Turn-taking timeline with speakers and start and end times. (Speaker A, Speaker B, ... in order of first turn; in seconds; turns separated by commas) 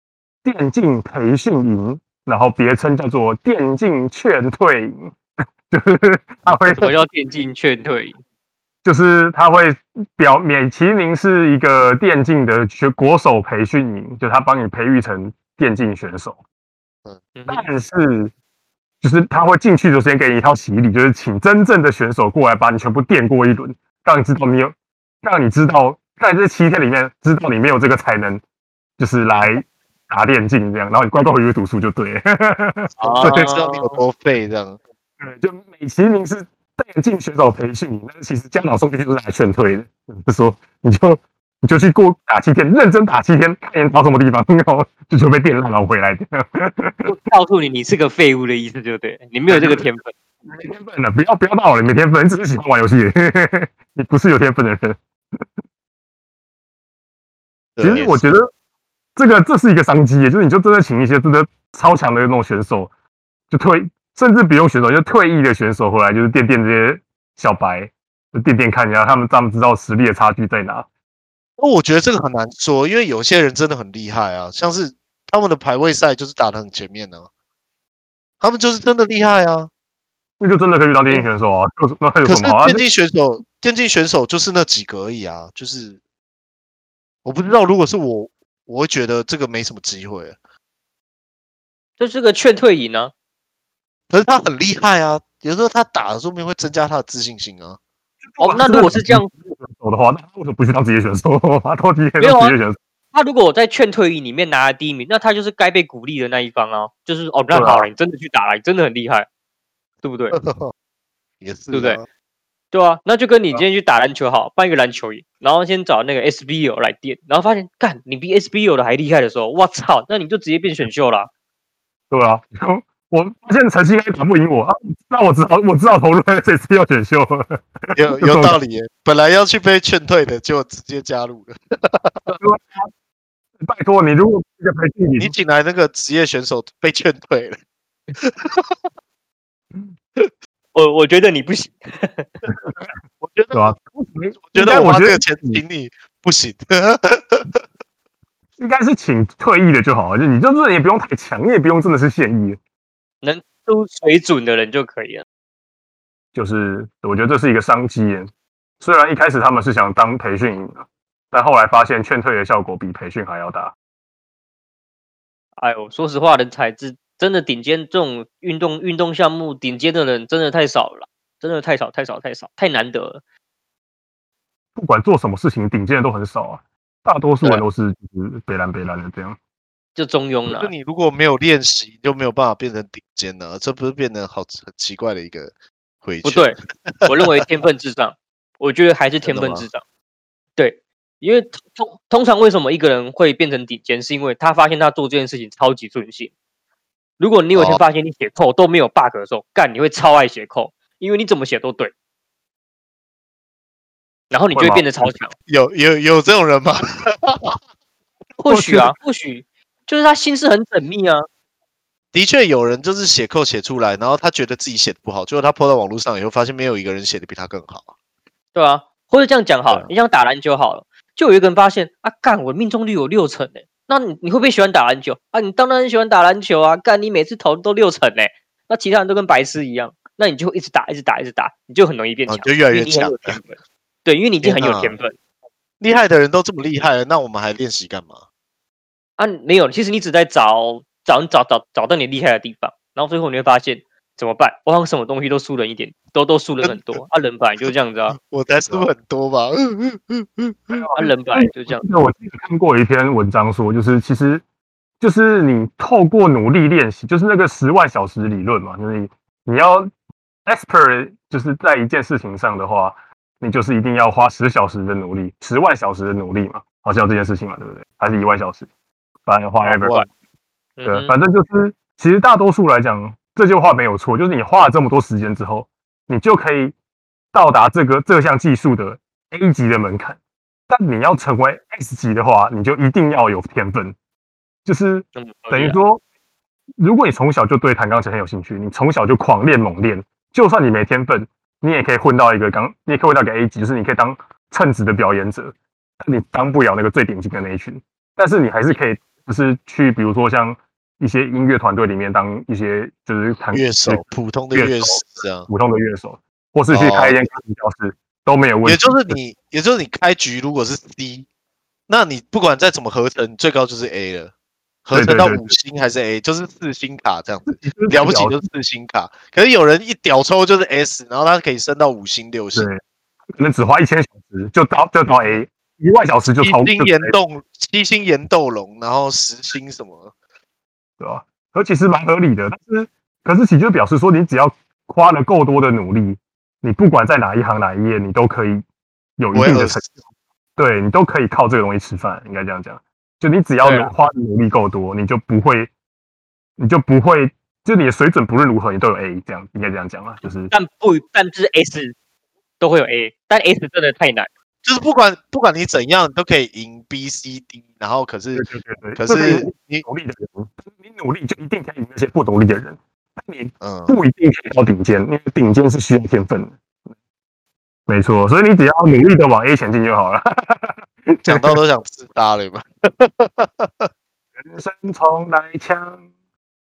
Speaker A: 0.4-5.2, Speaker A: 5.7-6.9, Speaker B: 6.7-8.2, Speaker A: 8.8-16.4, Speaker B: 17.3-17.7, Speaker A: 17.5-18.3, Speaker A: 19.0-28.4, Speaker A: 29.0-33.5, Speaker B: 33.0-34.0, Speaker C: 33.2-34.8, Speaker A: 35.2-47.1, Speaker B: 47.0-50.1, Speaker A: 49.5-49.9, Speaker A: 50.5-55.0, Speaker C: 57.8-58.2, Speaker A: 57.8-58.5, Speaker A: 59.1-62.9, Speaker A: 63.5-70.9, Speaker C: 71.6-77.3, Speaker C: 78.4-79.7, Speaker A: 80.4-82.8, Speaker C: 82.2-86.0, Speaker C: 87.2-90.4, Speaker B: 92.0-93.1, Speaker C: 94.1-97.8, Speaker A: 98.2-102.8, Speaker B: 98.4-99.3, Speaker B: 102.2-102.5, Speaker B: 103.1-109.3, Speaker A: 107.5-107.9, Speaker B: 110.0-110.4, Speaker C: 110.3-110.7, Speaker C: 111.4-112.0, Speaker B: 111.7-112.0, Speaker B: 112.7-121.3, Speaker A: 122.1-128.6, Speaker C: 127.9-132.2, Speaker A: 132.3-132.9, Speaker A: 133.6-135.3, Speaker C: 135.2-137.6, Speaker C: 138.2-138.8, Speaker B: 140.7-142.3, Speaker A: 142.5-142.8, Speaker C: 143.2-143.7, Speaker A: 143.5-145.6, Speaker C: 144.5-147.6, Speaker A: 148.6-152.6, Speaker B: 153.2-155.2, Speaker A: 156.3-158.3, Speaker A: 158.8-163.7, Speaker B: 165.6-173.2, Speaker A: 174.8-179.4, Speaker B: 179.9-180.7, Speaker C: 180.4-187.3, Speaker B: 186.2-189.8, Speaker C: 189.2-189.7, Speaker B: 190.6-196.3, Speaker B: 197.2-201.9, Speaker C: 197.5-197.8, Speaker B: 204.3-205.3, Speaker A: 204.5-204.9, Speaker C: 205.5-207.6, Speaker B: 208.4-211.3, Speaker A: 208.5-208.9, Speaker C: 212.1-217.9, Speaker B: 218.5-235.2, Speaker C: 232.3-233.4, Speaker C: 234.4-234.9, Speaker C: 235.8-238.2, Speaker B: 239.2-248.2, Speaker C: 246.6-247.0, Speaker C: 248.1-250.9, Speaker A: 250.7-254.4, Speaker B: 250.9-251.8, Speaker A: 255.0-259.9, Speaker A: 260.4-268.7, Speaker A: 269.2-270.1, Speaker B: 269.6-270.1, Speaker B: 270.8-271.1, Speaker A: 270.9-276.7, Speaker A: 277.3-280.2, Speaker A: 280.7-283.9, Speaker A: 284.6-286.0, Speaker B: 285.1-285.8, Speaker A: 286.8-309.1, Speaker C: 303.5-305.5, Speaker C: 306.7-307.2, Speaker C: 308.6-311.3, Speaker C: 311.9-314.3, Speaker C: 314.8-322.7, Speaker A: 314.9-315.5, Speaker A: 317.5-318.4, Speaker A: 322.5-322.8, Speaker A: 323.4-327.1, Speaker C: 326.4-330.1, Speaker A: 331.0-338.6, Speaker A: 339.2-339.8, Speaker C: 339.3-339.9, Speaker A: 340.6-345.7, Speaker B: 343.6-343.9, Speaker A: 346.6-350.5, Speaker B: 350.5-351.9, Speaker B: 352.6-354.3, Speaker C: 354.6-358.4, Speaker A: 358.3-366.6, Speaker C: 359.0-359.8, Speaker C: 363.6-364.0, Speaker A: 367.9-371.6, Speaker C: 371.2-373.9, Speaker A: 374.4-376.0